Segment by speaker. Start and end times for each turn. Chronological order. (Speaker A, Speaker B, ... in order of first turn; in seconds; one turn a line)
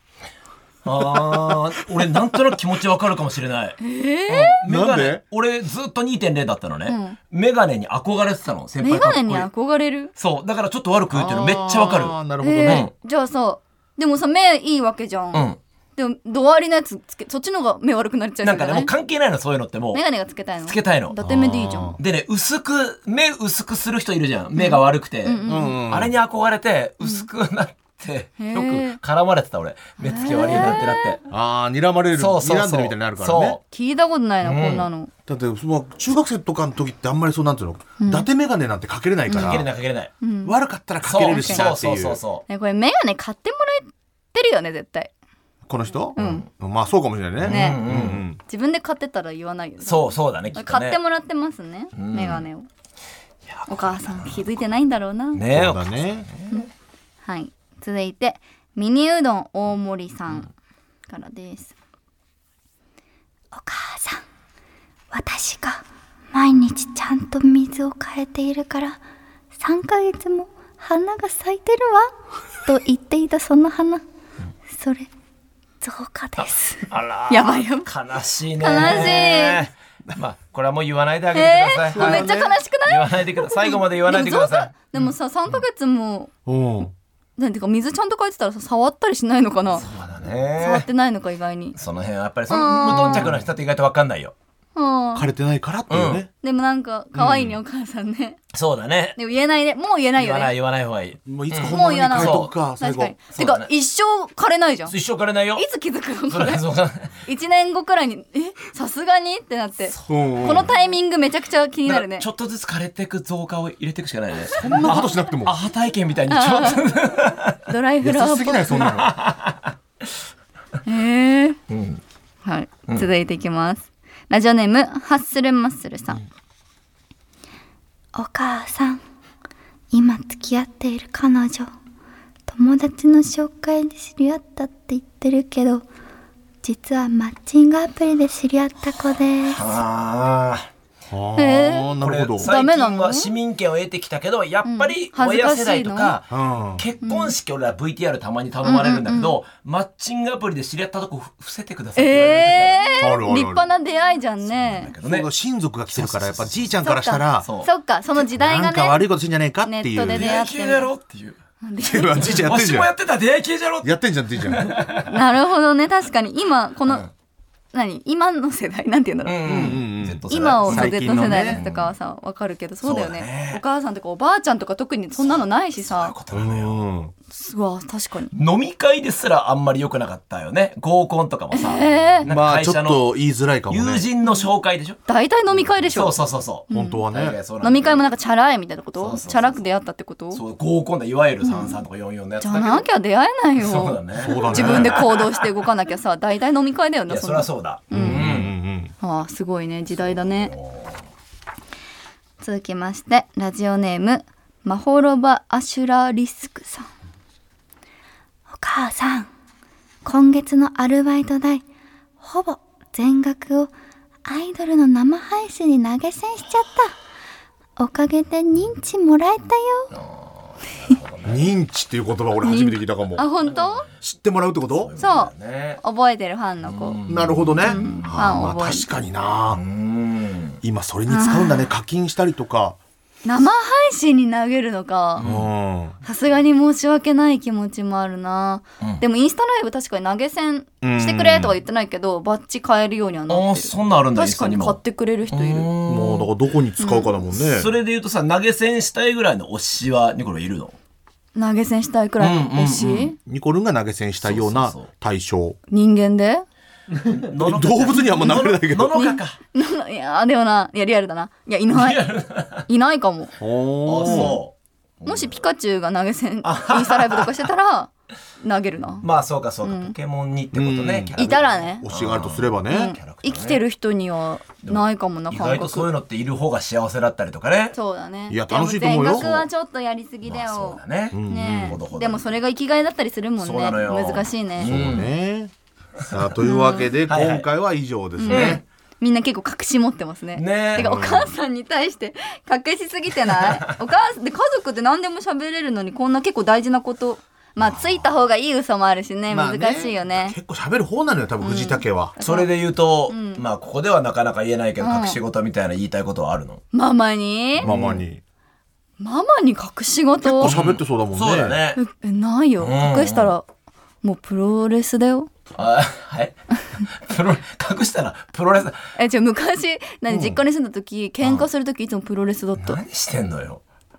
Speaker A: 0.8-9.5
Speaker B: 3.8-4.6
Speaker C: 4.7-5.2
Speaker B: 6.9-7.2
Speaker B: 8.8-10.1
Speaker A: 10.2-12.9
Speaker C: 11.1-12.9
Speaker B: 12.4-18.9
Speaker A: 15.3-15.6
Speaker A: 18.4-20.0
Speaker B: 19.9-22.0
Speaker A: 20.6-21.2
Speaker C: 21.2-22.0
Speaker A: 22.0-31.2
Speaker B: 24.6-25.8
Speaker C: 25.5-26.1
Speaker B: 27.0-27.3
Speaker B: 28.4-29.0
Speaker B: 30.0-31.2
Speaker C: 31.3-33.6
Speaker A: 32.2-33.6
Speaker B: 33.7-35.1
Speaker A: 34.4-34.9
Speaker C: 35.3-39.7
Speaker B: 38.0-38.3
Speaker B: 39.3-39.6
Speaker A: 39.3-40.1
Speaker B: 40.2-40.6
Speaker C: 40.4-42.2
Speaker A: 41.0-42.5
Speaker B: 41.2-41.7
Speaker B: 42.5-45.1
Speaker C: 45.7-48.4
Speaker A: 46.2-46.5
Speaker A: 47.4-48.2
Speaker B: 47.5-47.8
Speaker B: 48.5-52.7
Speaker A: 49.8-51.0
Speaker A: 52.0-52.5
Speaker A: 53.5-54.4
Speaker B: 53.7-55.4
Speaker A: 55.3-56.6
Speaker C: 55.5-56.3
Speaker B: 57.2-60.5
Speaker B: 61.1-61.7
Speaker B: 63.5-64.2
Speaker B: 65.1-69.0
Speaker B: 69.6-72.1
Speaker B: 72.6-74.0
Speaker B: 74.7-75.1
Speaker B: 75.8-77.9
Speaker A: 76.4-82.3
Speaker B: 78.6-79.7
Speaker B: 81.3-86.3
Speaker C: 81.9-82.5
Speaker A: 82.9-85.6
Speaker C: 86.5-86.9
Speaker B: 87.4-89.8
Speaker A: 89.7-90.9
Speaker B: 90.6-91.8
Speaker A: 91.8-94.3
Speaker B: 92.5-93.3
Speaker C: 93.0-93.4
Speaker B: 94.8-95.3
Speaker C: 95.1-96.3
Speaker A: 95.9-96.2
Speaker B: 96.4-98.4
Speaker A: 97.2-97.6
Speaker A: 98.5-99.2
Speaker B: 99.2-100.5
Speaker A: 100.2-102.5
Speaker C: 101.2-103.1
Speaker B: 101.7-104.9
Speaker A: 103.3-103.7
Speaker A: 104.9-105.6
Speaker B: 105.5-106.6
Speaker A: 106.3-107.2
Speaker B: 107.2-112.3
Speaker A: 109.9-110.7
Speaker C: 110.1-110.7
Speaker A: 111.9-117.6
Speaker C: 114.5-115.6
Speaker B: 114.7-115.0
Speaker B: 116.3-116.9
Speaker B: 117.7-118.9
Speaker C: 118.0-119.1
Speaker A: 118.7-119.7
Speaker B: 120.8-121.6
Speaker A: 121.7-122.0
Speaker B: 122.5-126.2
Speaker B: 128.1-129.0
Speaker B: 129.9-131.7
Speaker B: 132.5-135.9
Speaker B: 136.6-139.7
Speaker A: 139.4-140.7
Speaker C: 141.1-142.5
Speaker B: 141.4-143.3
Speaker A: 142.0-152.9
Speaker B: 144.6-146.2
Speaker C: 146.3-146.8
Speaker B: 147.0-147.3
Speaker B: 148.6-149.4
Speaker B: 152.0-154.9
Speaker C: 153.0-153.6
Speaker A: 154.4-155.3
Speaker C: 155.0-157.5
Speaker A: 155.9-156.7
Speaker B: 156.8-159.1
Speaker A: 157.4-157.7
Speaker C: 158.3-160.3
Speaker B: 159.6-160.9
Speaker A: 160.1-161.4
Speaker B: 161.6-162.4
Speaker C: 161.8-162.9
Speaker A: 162.2-165.1
Speaker C: 163.8-164.7
Speaker B: 165.1-167.0
Speaker B: 167.7-169.7
Speaker A: 169.2-171.9
Speaker C: 169.4-171.6
Speaker B: 170.3-176.1
Speaker A: 172.8-173.6
Speaker A: 175.2-176.8
Speaker C: 176.3-177.1
Speaker B: 177.3-178.3
Speaker A: 178.3-183.0
Speaker B: 181.5-182.3
Speaker C: 182.2-184.0
Speaker A: 183.7-185.0
Speaker B: 184.2-184.5
Speaker B: 185.1-187.0
Speaker A: 185.8-188.0
Speaker C: 186.7-187.4
Speaker B: 187.6-190.4
Speaker A: 189.0-189.6
Speaker A: 190.3-192.8
Speaker B: 191.4-191.8
Speaker B: 192.4-198.4
Speaker A: 193.6-195.5
Speaker C: 194.1-195.0
Speaker A: 197.1-198.5
Speaker C: 197.9-198.9
Speaker B: 199.0-200.5
Speaker A: 200.0-201.0
Speaker B: 202.4-206.9
Speaker B: 208.5-209.3
Speaker B: 210.0-211.6
Speaker B: 212.2-213.7
Speaker B: 214.2-217.0
Speaker B: 217.8-219.9
Speaker A: 219.9-221.5
Speaker C: 221.2-223.3
Speaker B: 222.4-223.8
Speaker A: 223.5-223.9
Speaker C: 224.0-224.9
Speaker A: 224.7-225.8
Speaker B: 225.0-227.0
Speaker A: 226.6-228.3
Speaker C: 227.1-229.6
Speaker B: 227.6-228.9
Speaker A: 229.5-230.6
Speaker C: 230.6-232.8
Speaker B: 231.1-231.7
Speaker B: 233.2-235.2
Speaker A: 235.2-235.5
Speaker C: 235.2-236.0
Speaker B: 236.0-245.7
Speaker C: 240.8-241.6
Speaker A: 243.3-246.3
Speaker C: 245.9-247.7
Speaker B: 246.8-247.1
Speaker A: 247.3-250.8
Speaker B: 251.4-253.2
Speaker A: 252.2-253.1
Speaker C: 253.1-255.6
Speaker A: 254.2-254.9
Speaker B: 255.7-256.4
Speaker A: 257.0-259.4
Speaker C: 257.3-259.0
Speaker B: 258.9-262.0
Speaker A: 261.7-262.7
Speaker B: 262.7-263.4
Speaker C: 263.4-264.4
Speaker A: 263.9-265.4
Speaker B: 264.0-264.4
Speaker B: 265.1-269.1
Speaker A: 266.4-267.5
Speaker A: 269.0-273.6
Speaker B: 269.6-270.0
Speaker C: 270.5-273.0
Speaker B: 271.2-271.9
Speaker B: 272.7-275.9
Speaker A: 274.6-277.8
Speaker B: 277.7-284.7
Speaker C: 278.3-279.5
Speaker A: 279.1-279.4
Speaker A: 280.2-282.3
Speaker C: 281.1-281.8
Speaker A: 283.4-285.1
Speaker C: 284.6-285.5
Speaker C: 286.1-288.6
Speaker B: 286.4-286.9
Speaker A: 287.1-287.5
Speaker B: 288.2-300.4
Speaker A: 288.2-288.6
Speaker A: 290.4-290.9
Speaker C: 290.8-291.3
Speaker A: 293.3-293.8
Speaker C: 297.6-298.1
Speaker C: 299.3-302.1
Speaker B: 301.4-302.5
Speaker A: 302.2-306.6
Speaker B: 303.1-303.4
Speaker B: 304.8-305.2
Speaker B: 306.7-307.7
Speaker A: 307.6-308.0
Speaker C: 307.6-308.2
Speaker B: 309.0-310.6
Speaker C: 310.2-311.6
Speaker A: 310.4-311.8
Speaker B: 311.8-313.4
Speaker A: 312.6-313.3
Speaker B: 314.0-315.3
Speaker A: 315.6-318.8
Speaker B: 319.0-322.8
Speaker C: 320.1-320.4
Speaker A: 321.2-321.5
Speaker A: 322.6-323.6